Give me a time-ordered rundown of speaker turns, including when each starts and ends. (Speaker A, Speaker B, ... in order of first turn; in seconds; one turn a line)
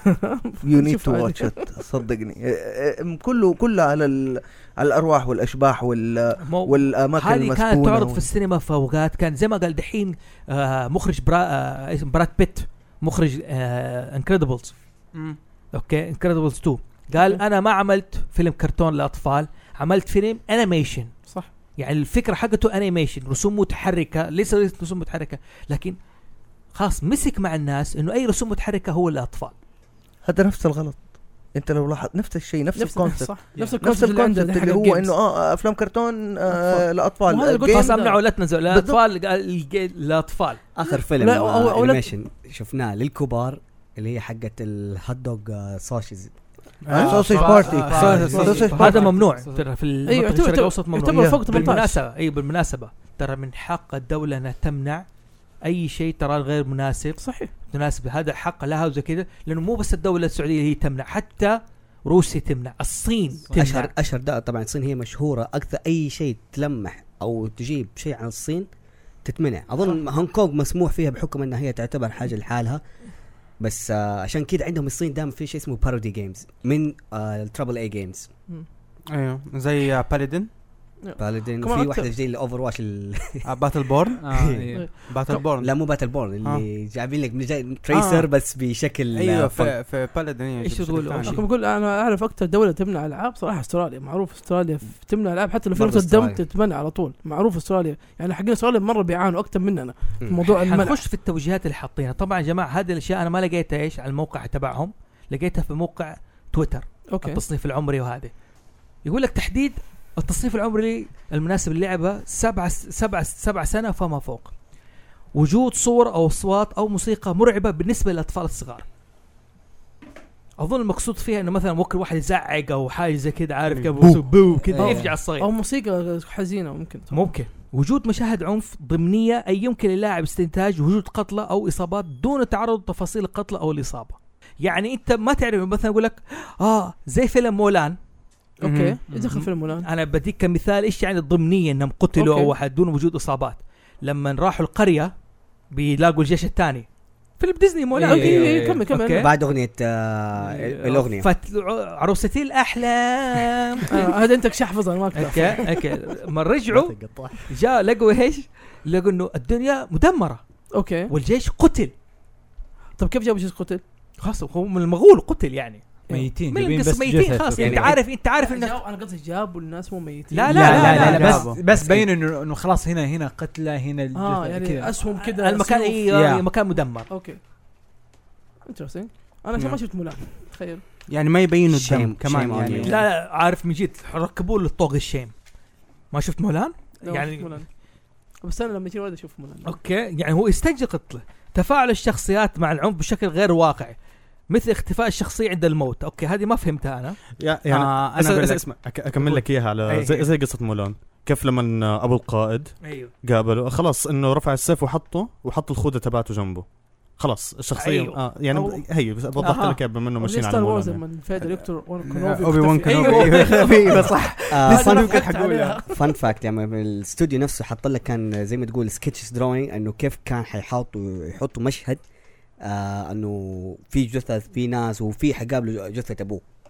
Speaker A: 0.3-1.6
Speaker B: 0.6-8.3
Speaker C: 6.4-14.8
Speaker C: 15.7-21.1
Speaker C: 21.8-26.0
Speaker C: 26.7-29.5
Speaker B: 30.2-31.0
Speaker B: 31.5-38.1
Speaker A: 32.8-35.1
Speaker D: 33.5-33.8
Speaker A: 36.5-38.2
Speaker C: 37.7-40.6
Speaker B: 38.7-39.0
Speaker E: 40.7-46.3
Speaker A: 40.9-42.1
Speaker F: 46.9-48.7
Speaker D: 46.9-49.6
Speaker B: 46.9-49.0
Speaker C: 48.0-55.0
Speaker A: 50.1-52.0
Speaker B: 51.0-51.7
Speaker C: 55.6-63.9
Speaker A: 57.2-57.5
Speaker D: 63.5-63.7
Speaker E: 63.5-68.7
Speaker E: 69.2-72.8
Speaker E: 73.6-78.3
Speaker F: 79.1-80.5
Speaker A: 81.0-82.1
Speaker E: 81.2-83.5
Speaker F: 83.5-84.2
Speaker D: 84.2-84.9
Speaker E: 84.3-84.7
Speaker A: 84.7-85.4
Speaker F: 85.1-85.8
Speaker E: 85.5-89.8
Speaker F: 87.9-88.3
Speaker F: 89.1-91.4
Speaker C: 90.6-91.4
Speaker A: 91.2-101.0
Speaker E: 95.7-96.4
Speaker C: 100.4-108.3
Speaker A: 107.1-107.4
Speaker C: 109.0-114.5
Speaker C: 115.3-118.8
Speaker C: 120.6-125.5
Speaker F: 123.7-124.2
Speaker D: 124.8-125.1
Speaker A: 124.8-127.3
Speaker C: 127.1-138.0
Speaker A: 138.6-139.9
Speaker F: 138.6-139.0
Speaker D: 139.1-139.4
Speaker C: 139.3-145.1
Speaker A: 142.2-142.5
Speaker C: 145.7-146.9
Speaker C: 147.4-149.3
Speaker D: 148.0-148.9
Speaker A: 148.0-149.3
Speaker E: 149.1-151.3
Speaker C: 150.4-154.1
Speaker A: 153.9-155.8
Speaker C: 155.1-156.9
Speaker D: 156.7-157.4
Speaker C: 157.5-160.4
Speaker A: 160.7-161.1
Speaker C: 161.1-161.9
Speaker A: 163.0-163.8
Speaker C: 164.2-165.8
Speaker D: 166.1-168.0
Speaker C: 166.5-168.8
Speaker E: 167.6-168.0
Speaker A: 168.3-171.3
Speaker C: 170.3-171.5
Speaker D: 170.5-174.9
Speaker F: 170.5-172.0
Speaker A: 174.1-176.1
Speaker C: 175.2-177.1
Speaker D: 176.1-176.4
Speaker A: 177.1-177.4
Speaker A: 178.7-180.8
Speaker F: 181.1-183.0
Speaker E: 181.7-183.0
Speaker C: 182.8-185.3
Speaker C: 186.1-187.5
Speaker A: 187.0-187.7
Speaker A: 188.4-189.7
Speaker C: 189.6-193.9
Speaker C: 194.5-197.2
Speaker G: 197.4-206.6
Speaker F: 197.7-198.6
Speaker C: 199.2-200.3
Speaker C: 202.8-203.1
Speaker G: 207.2-211.0
Speaker C: 207.8-208.2
Speaker A: 208.5-208.8
Speaker C: 209.4-209.7
Speaker A: 210.2-214.1
Speaker F: 212.0-215.4
Speaker C: 212.8-214.3
Speaker D: 213.9-215.8
Speaker E: 214.5-215.3
Speaker A: 214.7-216.2
Speaker E: 215.9-222.0
Speaker E: 222.6-226.4